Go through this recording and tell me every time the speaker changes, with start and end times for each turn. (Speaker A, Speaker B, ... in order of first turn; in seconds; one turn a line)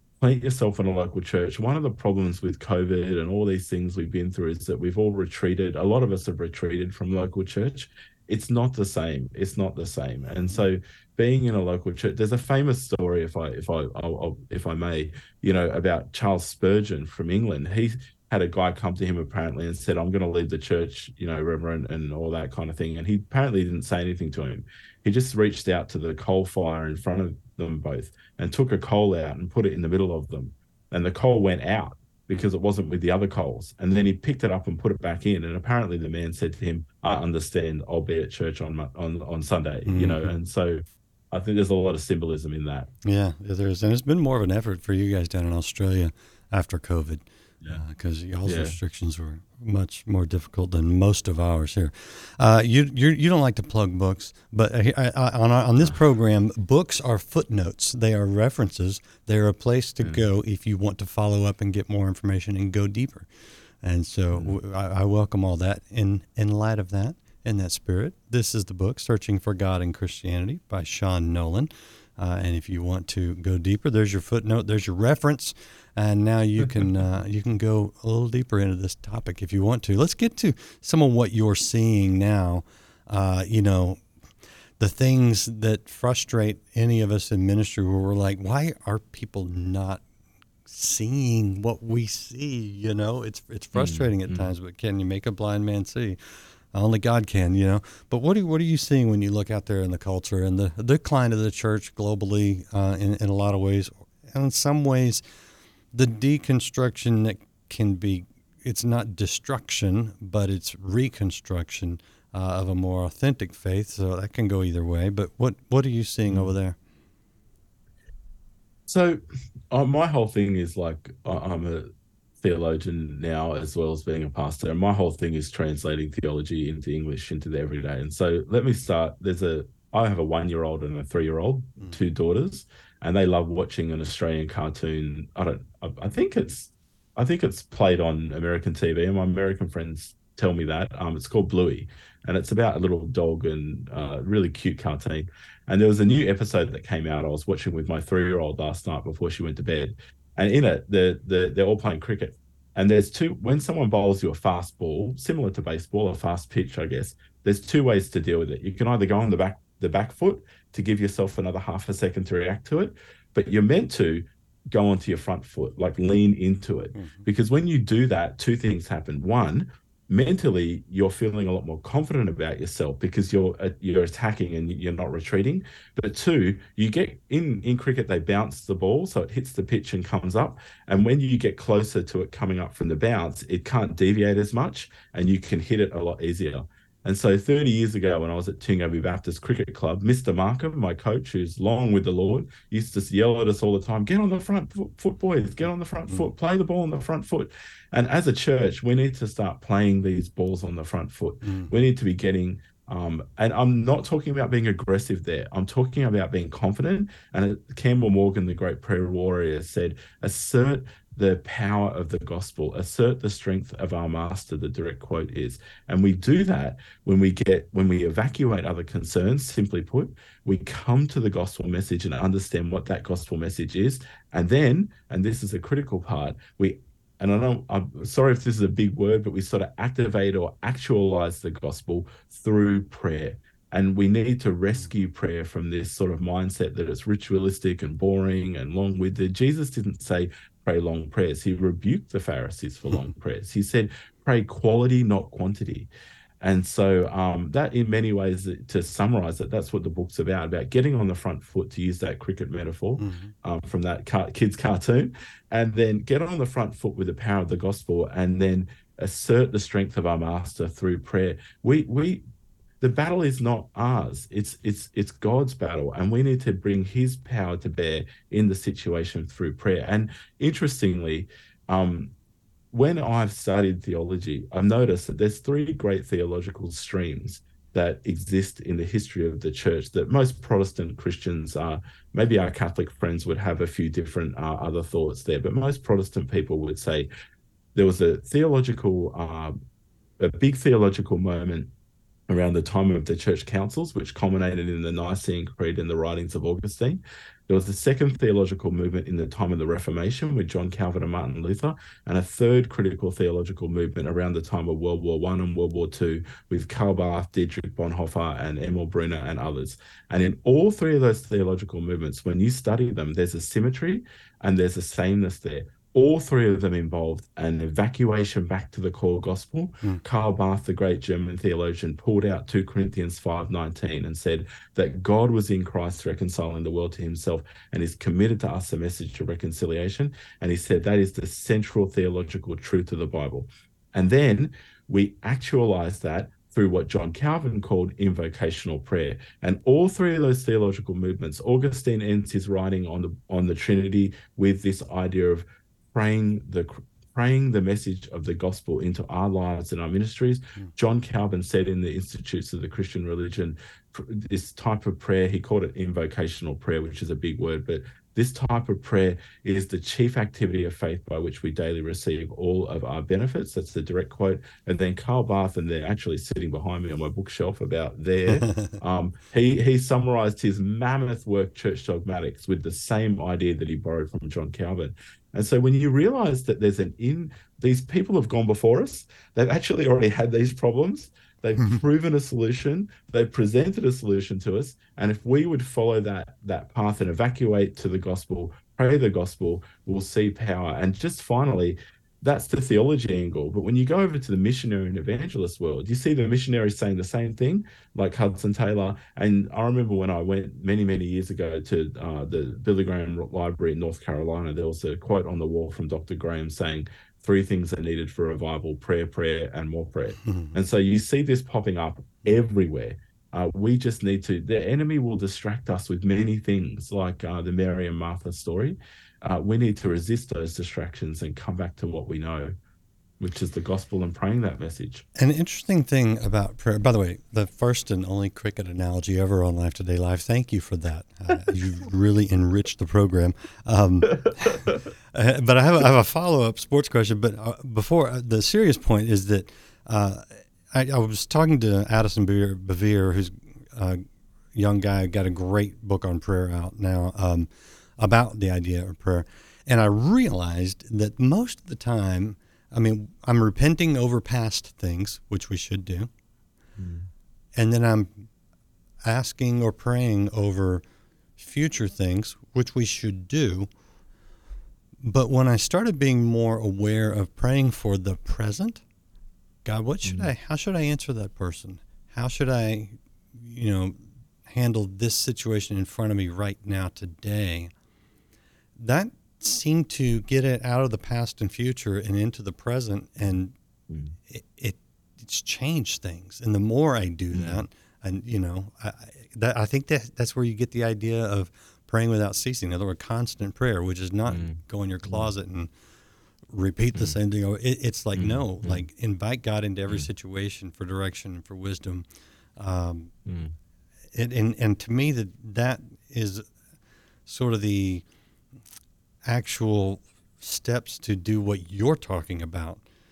Speaker A: 0.2-42.9
Speaker B: 39.9-40.3
Speaker B: 43.0-84.0
Speaker A: 48.4-48.8
Speaker A: 60.0-60.2
Speaker B: 84.8-90.0
Speaker B: 90.7-96.2
Speaker A: 93.7-94.5
Speaker B: 96.7-105.2
Speaker B: 105.9-116.8
Speaker A: 118.9-121.9
Speaker A: 122.4-245.9
Speaker B: 166.9-167.2
Speaker B: 201.4-201.7
Speaker A: 246.4-262.2
Speaker B: 253.0-253.3
Speaker A: 262.8-272.1
Speaker A: 272.7-287.1
Speaker A: 287.7-289.6
Speaker A: 290.2-291.7
Speaker A: 292.3-422.5
Speaker B: 368.3-368.8
Speaker B: 410.2-410.6
Speaker A: 423.2-425.1
Speaker B: 425.2-456.1
Speaker A: 456.8-457.1
Speaker B: 457.6-458.3
Speaker B: 459.0-460.8
Speaker B: 461.4-463.7
Speaker B: 465.0-468.8
Speaker B: 469.6-477.7
Speaker A: 470.0-470.3
Speaker B: 478.8-483.5
Speaker A: 483.9-484.1
Speaker B: 484.3-495.7
Speaker A: 487.3-487.6
Speaker A: 494.3-495.3
Speaker B: 496.5-502.0
Speaker A: 498.1-498.9
Speaker B: 502.6-503.1
Speaker A: 503.2-503.5
Speaker B: 504.1-506.4
Speaker B: 507.2-508.0
Speaker B: 509.2-512.8